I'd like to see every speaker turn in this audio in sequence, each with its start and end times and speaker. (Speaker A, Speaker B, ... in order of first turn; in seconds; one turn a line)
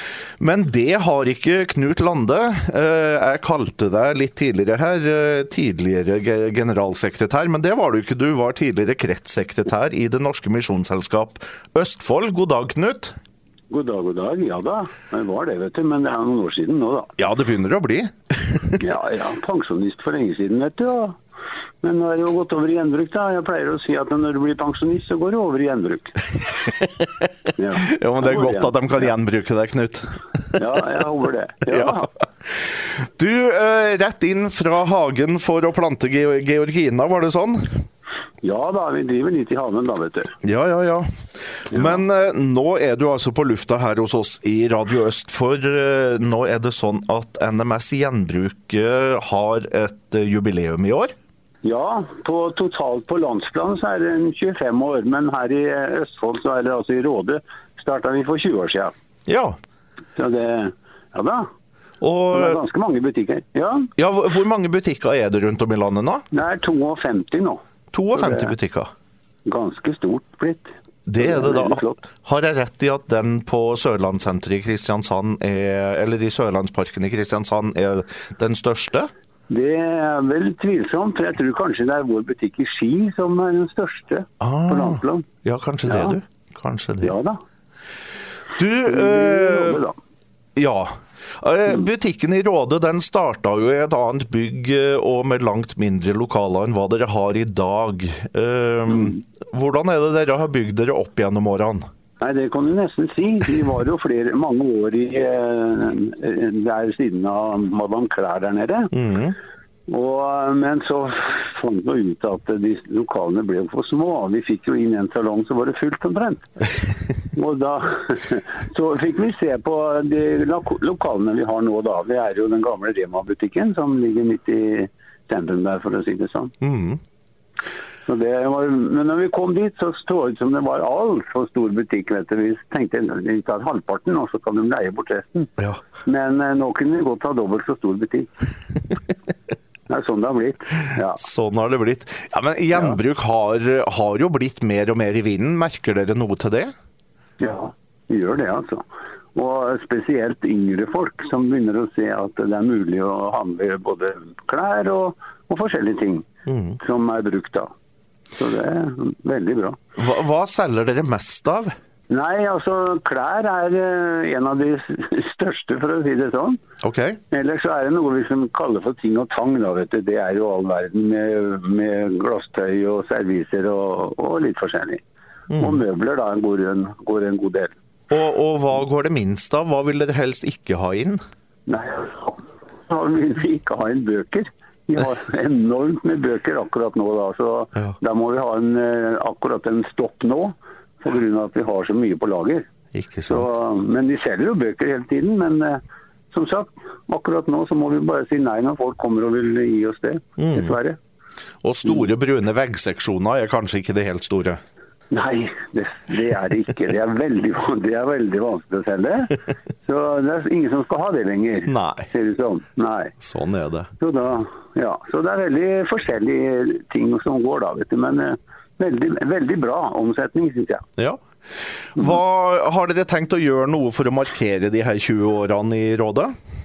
Speaker A: 0.4-13.2
Speaker B: 13.7-17.1
Speaker A: 17.2-18.8
Speaker B: 18.8-21.2
Speaker B: 21.8-26.2
Speaker A: 26.6-27.2
Speaker B: 27.6-29.1
Speaker A: 27.9-30.6
Speaker B: 30.6-32.1
Speaker A: 31.7-31.9
Speaker A: 32.5-37.8
Speaker B: 38.4-40.3
Speaker A: 40.4-41.1
Speaker A: 41.7-51.1
Speaker B: 41.7-42.0
Speaker B: 51.6-58.9
Speaker A: 59.3-59.6
Speaker B: 60.2-61.5
Speaker A: 62.0-62.6
Speaker B: 62.3-63.9
Speaker A: 64.0-66.2
Speaker B: 66.3-67.6
Speaker A: 67.9-68.9
Speaker B: 68.1-68.5
Speaker B: 69.5-72.0
Speaker A: 71.1-79.1
Speaker B: 79.5-85.3
Speaker A: 84.4-87.1
Speaker B: 85.9-86.2
Speaker B: 87.0-87.4
Speaker A: 88.6-89.8
Speaker B: 88.8-90.0
Speaker A: 90.6-101.8
Speaker B: 102.2-108.9
Speaker A: 108.9-109.4
Speaker B: 109.9-116.5
Speaker B: 117.3-126.5
Speaker A: 126.6-127.0
Speaker B: 128.1-135.5
Speaker B: 136.0-138.3
Speaker B: 139.9-141.2
Speaker A: 141.1-146.7
Speaker B: 147.4-156.3
Speaker A: 156.5-156.8
Speaker B: 156.8-157.7
Speaker B: 158.4-159.8
Speaker A: 160.0-161.7
Speaker B: 162.1-166.6
Speaker A: 166.8-167.2
Speaker B: 167.3-175.0
Speaker A: 175.5-175.8
Speaker B: 175.5-177.7
Speaker A: 178.1-181.2
Speaker B: 181.7-192.7
Speaker A: 192.9-193.5
Speaker B: 193.3-195.8
Speaker B: 196.3-201.0
Speaker A: 200.4-200.8
Speaker A: 201.6-204.6
Speaker B: 205.1-213.2
Speaker A: 211.7-212.1
Speaker A: 213.2-213.9
Speaker B: 214.0-220.8
Speaker A: 221.9-226.3